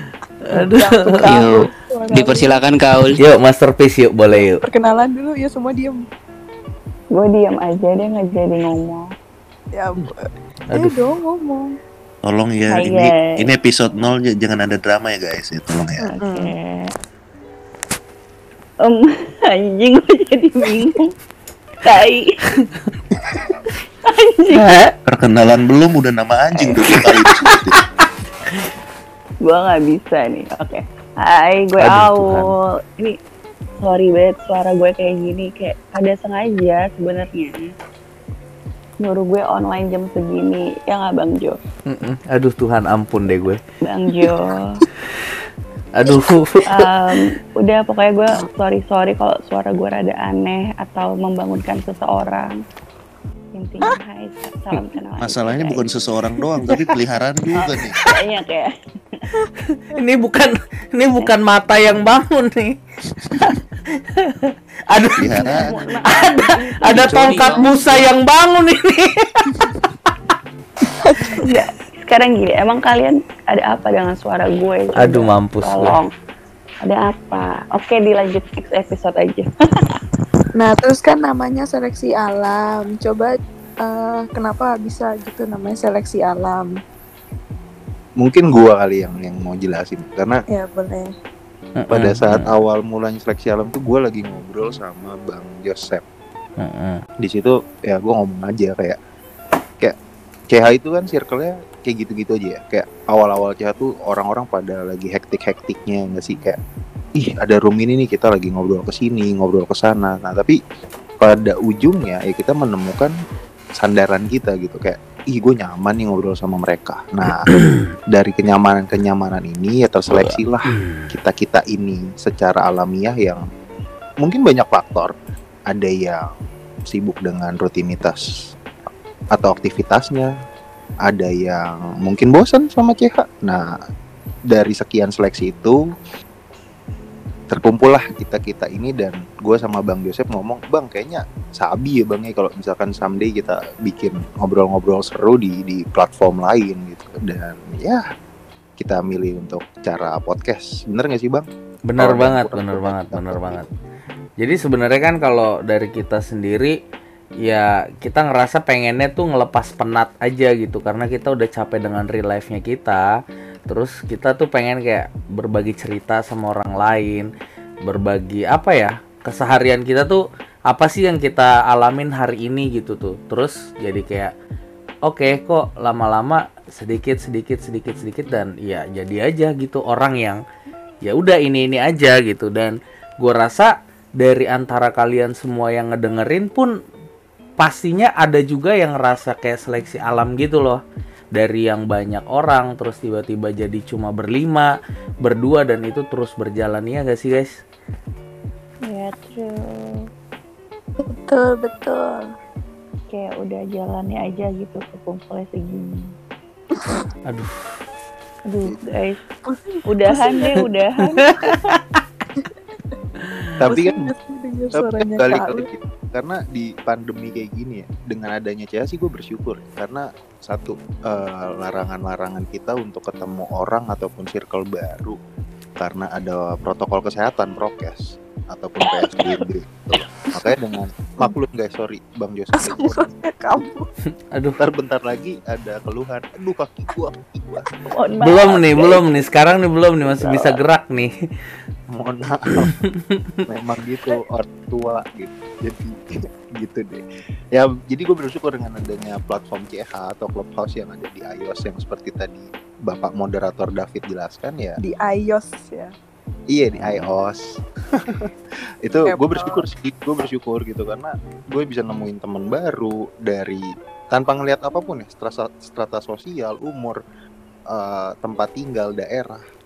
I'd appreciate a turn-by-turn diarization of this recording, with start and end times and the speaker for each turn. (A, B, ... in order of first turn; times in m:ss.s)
0:00.4-0:01.5 A
0:00.5-0:02.6 B
0:01.2-0:03.2 C
0:03.2-0:04.6 A
0:04.6-0:06.0 B
0:07.1-0:09.1 D
0:09.7-0:11.7 B
0:10.7-0:11.0 A
0:12.2-0:16.1 E
0:12.7-0:13.5 D
0:16.0-0:16.9 D
0:16.2-0:16.5 B
0:18.8-0:21.1 D
0:21.8-0:22.4 D
0:24.1-0:24.7 D
0:24.5-0:24.9 A
0:25.1-0:27.8 E
0:29.4-0:33.2 D
0:31.8-0:32.6 A
0:33.8-0:37.7 D
0:39.0-0:41.6 D
0:41.9-0:43.6 A
0:43.9-0:44.8 D
0:46.0-0:46.9 A
0:46.7-0:52.6 D
0:53.6-0:55.9 D
0:55.2-0:58.0 E
0:57.6-0:59.2 D
0:59.9-1:02.8 A
1:03.3-1:03.6 A
1:04.2-1:09.5 A
1:05.2-1:05.7 E
1:05.3-1:08.0 D
1:06.8-1:08.0 C
1:11.0-1:11.4 B
1:11.4-1:16.1 D
1:15.0-1:16.0 A
1:16.8-1:19.5 D
1:20.6-1:26.7 B
1:28.2-1:30.4 F
1:30.5-1:31.1 B
1:31.8-1:32.5 A
1:31.9-1:36.0 F
1:36.6-1:37.0 A
1:37.2-1:39.0 F
1:40.5-1:46.6 F
1:47.2-1:50.6 F
1:51.2-1:53.2 F
1:53.8-1:57.5 F
1:57.3-1:57.9 A
1:58.1-2:03.4 F
2:00.1-2:01.1 A
2:04.2-2:05.1 F
2:05.7-2:06.2 F
2:06.9-2:08.2 F
2:09.3-2:10.3 F
2:11.0-2:13.7 F
2:14.5-2:15.8 F
2:17.5-2:28.0 F
2:28.8-2:31.4 F
2:31.8-2:33.7 A
2:32.0-2:33.7 F
2:34.4-2:36.8 A
2:37.4-2:43.0 A
2:43.7-2:47.3 A
2:47.8-2:54.3 A
2:55.1-3:00.4 A
3:01.1-3:06.7 A
3:07.6-3:10.8 A
3:11.4-3:14.7 A
3:15.2-3:17.6 A
3:18.9-3:19.6 D
3:21.0-3:22.2 B
3:23.1-3:25.9 D
3:27.3-3:27.6 A
3:28.5-3:29.2 D
3:29.5-3:30.6 B
3:29.9-3:31.2 D
3:31.1-3:32.0 A
3:33.2-3:33.6 A
3:33.6-3:34.1 F
3:33.7-3:35.7 B
3:34.7-3:45.2 F
3:45.8-3:53.1 F
3:52.5-3:53.9 B
3:54.3-3:54.6 A
3:54.6-3:57.7 F
3:57.9-3:59.1 D
3:58.2-4:01.1 A
4:00.1-4:00.6 D
4:01.9-4:02.7 F
4:02.7-4:03.5 A
4:03.5-4:07.0 F
4:07.5-4:14.8 F
4:14.8-4:15.9 B
4:16.5-4:18.3 F
4:18.8-4:27.0 F
4:19.1-4:19.7 B
4:27.7-4:29.4 F